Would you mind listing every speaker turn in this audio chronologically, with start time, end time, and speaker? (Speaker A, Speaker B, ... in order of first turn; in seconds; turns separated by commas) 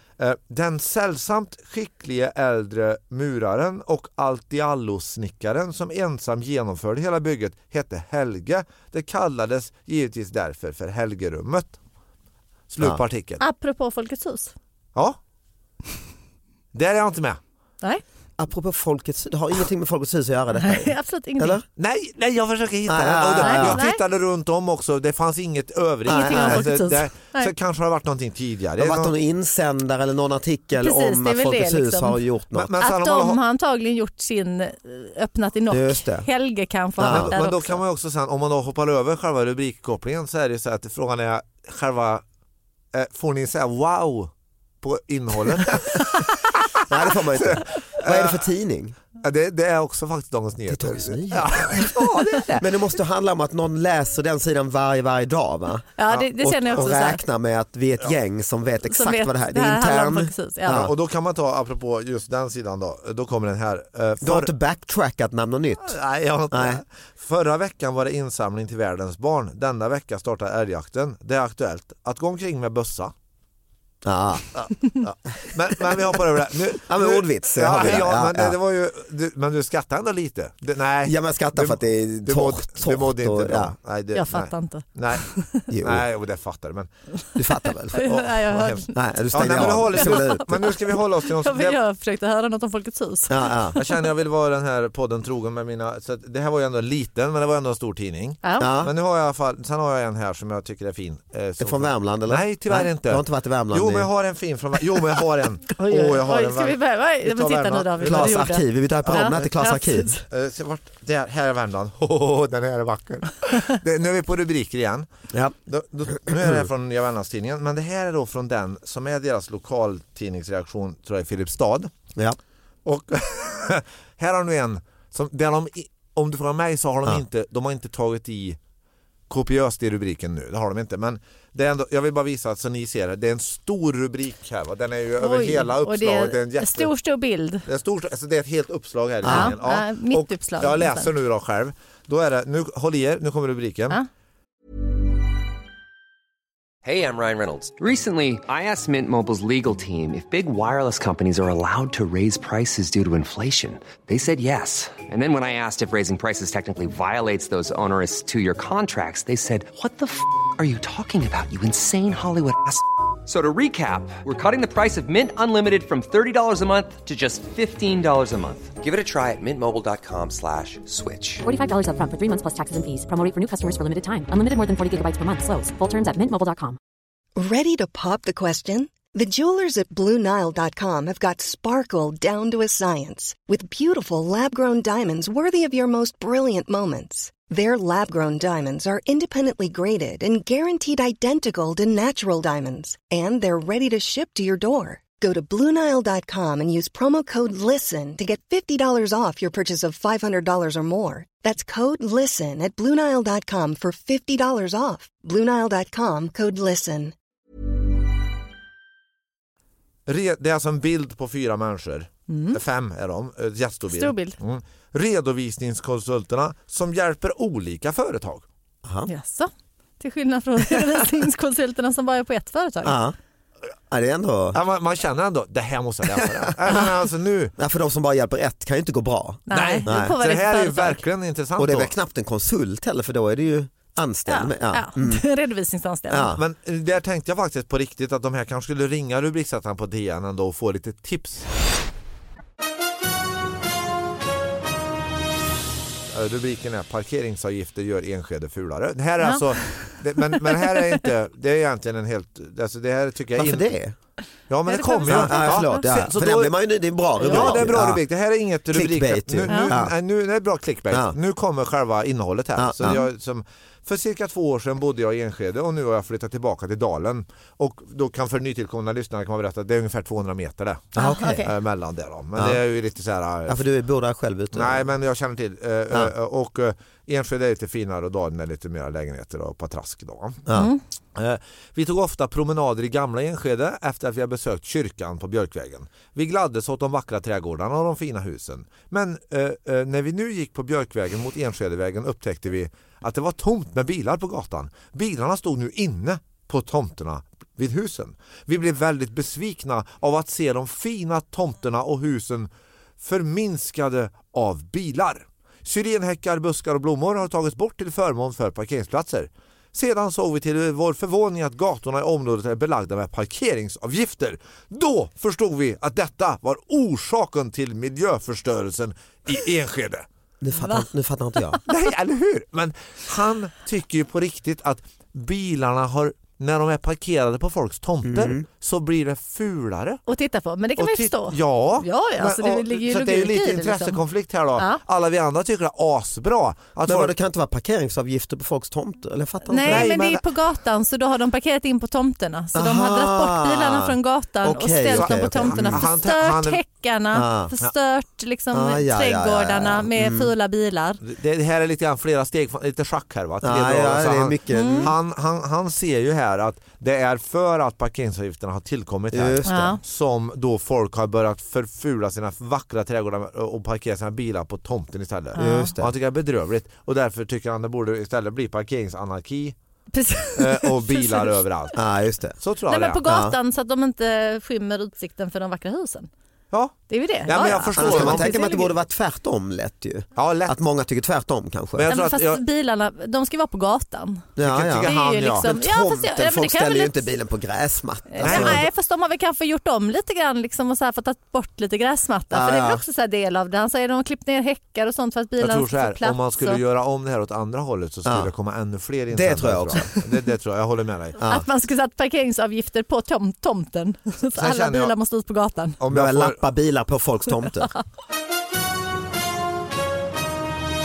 Speaker A: 0.2-11.8, Speaker A: 12.7-13.4, Speaker B: 13.4-14.5, Speaker A: 16.7-17.4, Speaker C: 18.4-21.6, Speaker B: 20.6-21.6, Speaker A: 21.8-29.1, Speaker C: 22.9-23.8, Speaker B: 23.4-24.0, Speaker B: 26.1-27.5, Speaker C: 26.1-26.7, Speaker C: 28.8-32.7, Speaker B: 30.8-32.2, Speaker A: 32.5-33.4, Speaker B: 32.8-37.8, Speaker C: 35.7-36.3, Speaker C: 37.0-37.3, Speaker A: 37.0-42.2, Speaker A: 42.9-44.3, Speaker A: 44.8-46.3, Speaker C: 46.9-49.0, Speaker A: 47.4-48.5, Speaker A: 49.2-52.8, Speaker C: 50.7-52.0, Speaker C: 52.6-60.9, Speaker B: 56.0-57.2, Speaker A: 56.2-56.9, Speaker B: 58.9-60.9, Speaker A: 60.7-64.5, Speaker C: 64.2-66.0, Speaker A: 65.8-73.1, Speaker C: 66.5-66.8, Speaker C: 74.0-74.6, Speaker A: 74.5-85.2, Speaker C: 76.8-78.6, Speaker C: 81.0-83.7, Speaker B: 84.1-85.7, Speaker C: 85.7-86.0, Speaker A: 85.8-86.9, Speaker C: 87.4-88.1, Speaker B: 87.9-94.0, Speaker A: 88.0-91.8, Speaker C: 88.9-90.8, Speaker C: 93.3-93.8, Speaker A: 93.8-108.5, Speaker B: 98.4-98.8, Speaker C: 98.6-98.9, Speaker C: 101.6-104.1, Speaker B: 105.8-110.2, Speaker C: 108.0-110.2, Speaker A: 109.1-109.5, Speaker A: 110.3-115.1, Speaker A: 115.7-121.9, Speaker A: 122.8-128.6, Speaker A: 129.3-136.9, Speaker B: 135.2-137.7, Speaker A: 137.7-144.0, Speaker C: 139.2-139.6, Speaker B: 139.2-141.1, Speaker D: 146.8-171.4, Speaker E: 171.4-176.8, Speaker F: 177.4-207.1, Speaker A: 210.1-218.4, Speaker B: 212.3-212.6, Speaker B: 213.9-214.4, Speaker B: 219.1-223.0, Speaker C: 222.8-223.2, Speaker C: 223.9-224.6, Speaker A: 224.5-227.5, Speaker C: 227.6-230.2, Speaker B: 229.5-231.0, Speaker A: 229.5-231.9, Speaker C: 231.6-235.2, Speaker B: 234.3-236.4, Speaker C: 236.1-236.4, Speaker A: 236.4-241.5, Speaker A: 246.1-253.8, Speaker B: 249.2-249.5, Speaker B: 250.3-250.9, Speaker C: 253.4-254.0, Speaker A: 254.5-256.5, Speaker B: 254.7-255.9, Speaker C: 255.1-258.0, Speaker B: 257.2-257.7, Speaker A: 257.2-273.6, Speaker C: 258.7-259.9, Speaker B: 259.5-259.8, Speaker C: 260.9-261.2, Speaker C: 262.6-263.0, Speaker C: 271.0-271.5, Speaker B: 271.0-271.5, Speaker C: 273.5-274.9, Speaker A: 274.5-280.4, Speaker B: 280.5-280.8, Speaker A: 281.1-320.1, Speaker C: 320.4-321.6, Speaker B: 320.6-320.9, Speaker A: 321.7-330.0, Speaker C: 328.0-328.4, Speaker B: 330.1-334.0, Speaker A: 330.8-337.1, Speaker C: 336.9-339.9, Speaker B: 339.5-351.0, Speaker A: 339.6-340.2, Speaker C: 342.6-345.9, Speaker A: 344.9-346.6, Speaker C: 347.1-347.5, Speaker C: 348.5-350.3, Speaker A: 351.0-369.6, Speaker C: 353.4-354.9, Speaker B: 354.5-354.9, Speaker C: 359.1-359.8, Speaker B: 359.4-359.8, Speaker B: 365.4-365.7, Speaker C: 365.4-365.9, Speaker B: 369.9-371.4, Speaker A: 370.4-371.8, Speaker C: 371.8-372.4, Speaker A: 372.4-373.0, Speaker B: 372.7-376.1, Speaker C: 373.1-373.4, Speaker A: 376.5-378.3, Speaker B: 376.9-378.7, Speaker C: 377.7-381.9, Speaker A: 380.2-380.6, Speaker A: 381.8-382.4, Speaker B: 381.9-384.3, Speaker C: 384.4-388.6, Speaker A: 384.4-385.5, Speaker B: 384.8-387.1, Speaker B: 388.1-396.6, Speaker A: 388.2-388.6, Speaker C: 392.3-392.8, Speaker A: 395.4-401.2, Speaker C: 398.1-398.3, Speaker C: 399.1-399.9, Speaker B: 401.2-405.8, Speaker A: 404.4-404.9, Speaker A: 405.8-406.4, Speaker C: 405.9-407.7